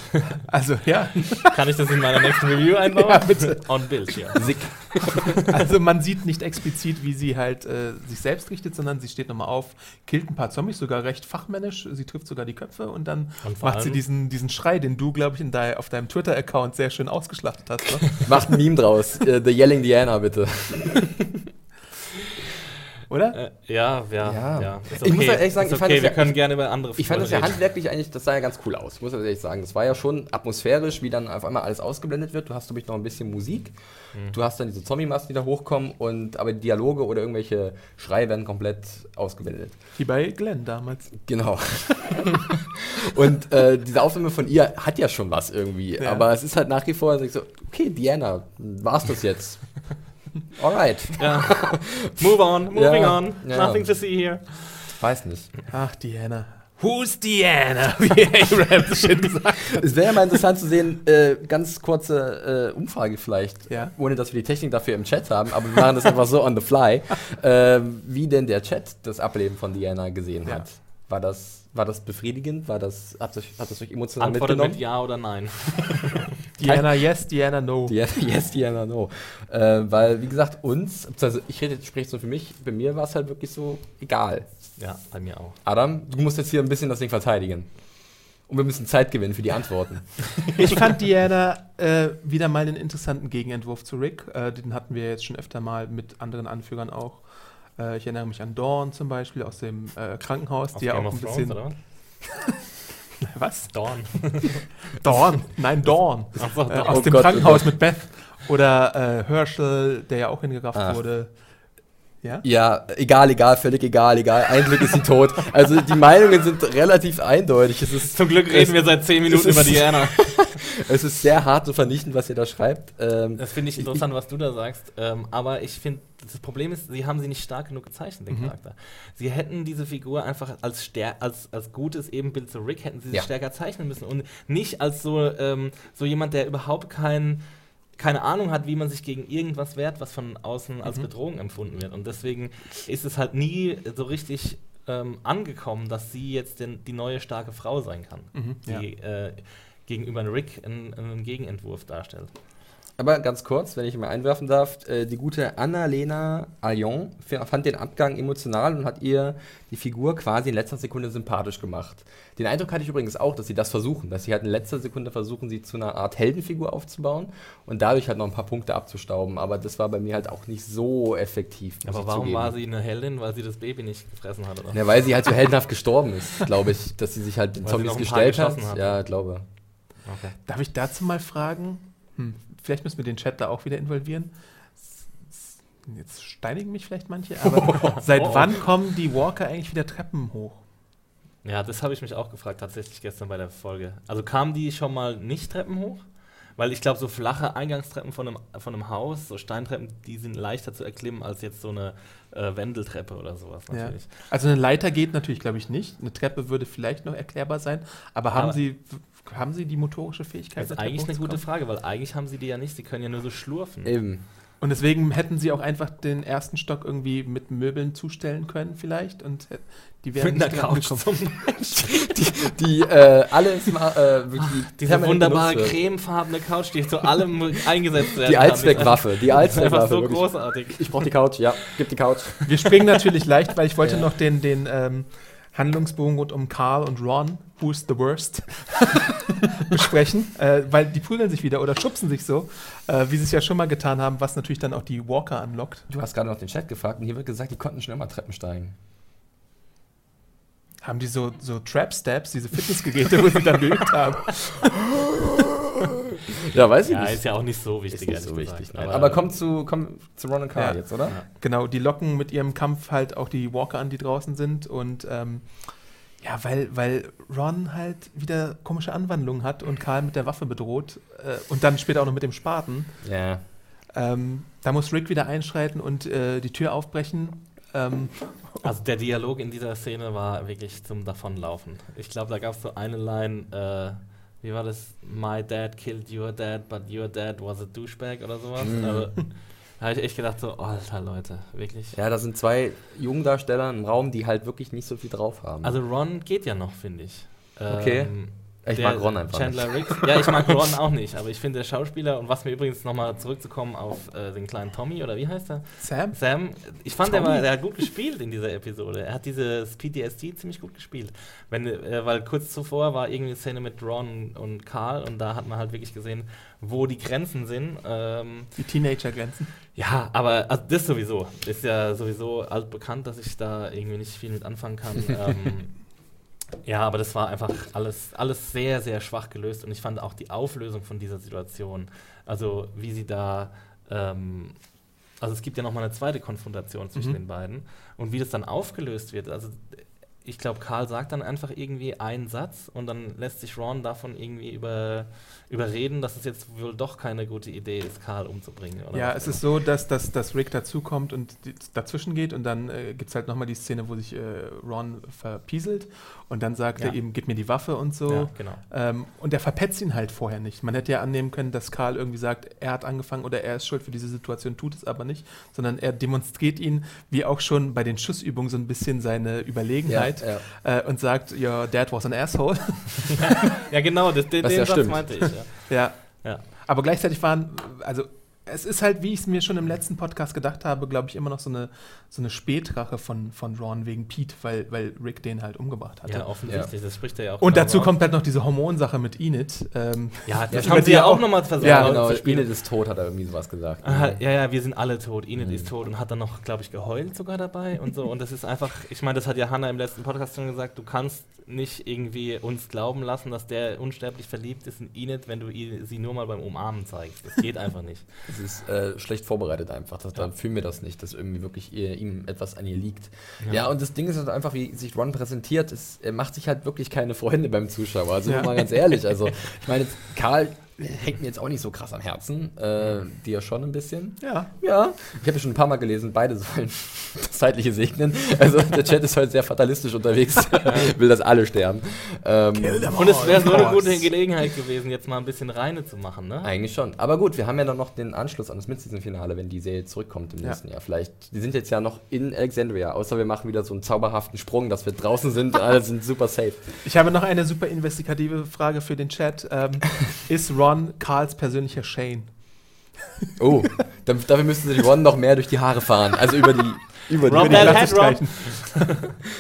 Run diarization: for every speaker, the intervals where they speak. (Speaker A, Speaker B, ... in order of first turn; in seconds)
Speaker A: 0.4-1.6, 2.9-4.5, 5.3-18.3, 23.1-23.4, 40.0-41.8, 46.0-46.2, 55.7-60.1, 63.7-63.9, 76.6-78.0, 90.5-102.4, 103.2-112.4, 128.3-128.5, 140.8-141.1, 148.3-148.8, 180.5-190.7, 203.7-211.4, 214.6-221.6, 232.5-245.9, 250.8-255.0, 260.6-273.3, 273.9-278.6, 305.8-307.8, 318.6-319.5, 348.9-373.3, 375.7-386.8, 387.4-392.1, 418.3-418.6, 424.2-424.5, 432.6-434.1, 446.8-453.0, 457.4-458.9
Speaker B: 1.4-4.9, 13.4-14.0, 23.3-27.6, 51.2-54.9, 74.2-76.1, 84.8-85.6, 100.7-101.8, 103.7-107.4, 118.1-120.5, 123.4-152.3, 171.8-175.0, 177.6-179.1, 180.1-180.4, 187.8-188.5, 191.4-204.1, 208.3-208.6, 210.6-213.9, 220.2-221.9, 224.7-231.4, 256.9-259.3, 278.6-292.0, 295.6-318.6, 319.8-349.4, 356.8-358.6, 373.6-376.4, 386.1-387.9, 390.3-392.5, 393.8-408.1, 432.9-436.5, 457.2-458.8
Speaker C: 4.4-5.3, 18.2-21.4, 24.2-39.9, 41.2-42.5, 43.0-54.1, 54.8-55.5, 59.8-75.3, 76.7-77.3, 77.9-84.8, 85.6-90.5, 106.4-108.0, 110.7-111.0, 112.4-124.0, 153.0-172.6, 174.7-179.5, 213.8-214.2, 222.1-225.9, 228.2-232.7, 233.8-234.1, 245.9-248.8, 256.5-261.2, 273.0-273.4, 288.6-289.1, 291.9-295.8, 297.7-300.0, 369.9-370.4, 374.4-375.4, 386.5-386.7, 390.5-394.3, 395.4-395.7, 408.3-433.6, 436.4-446.9, 453.4-458.2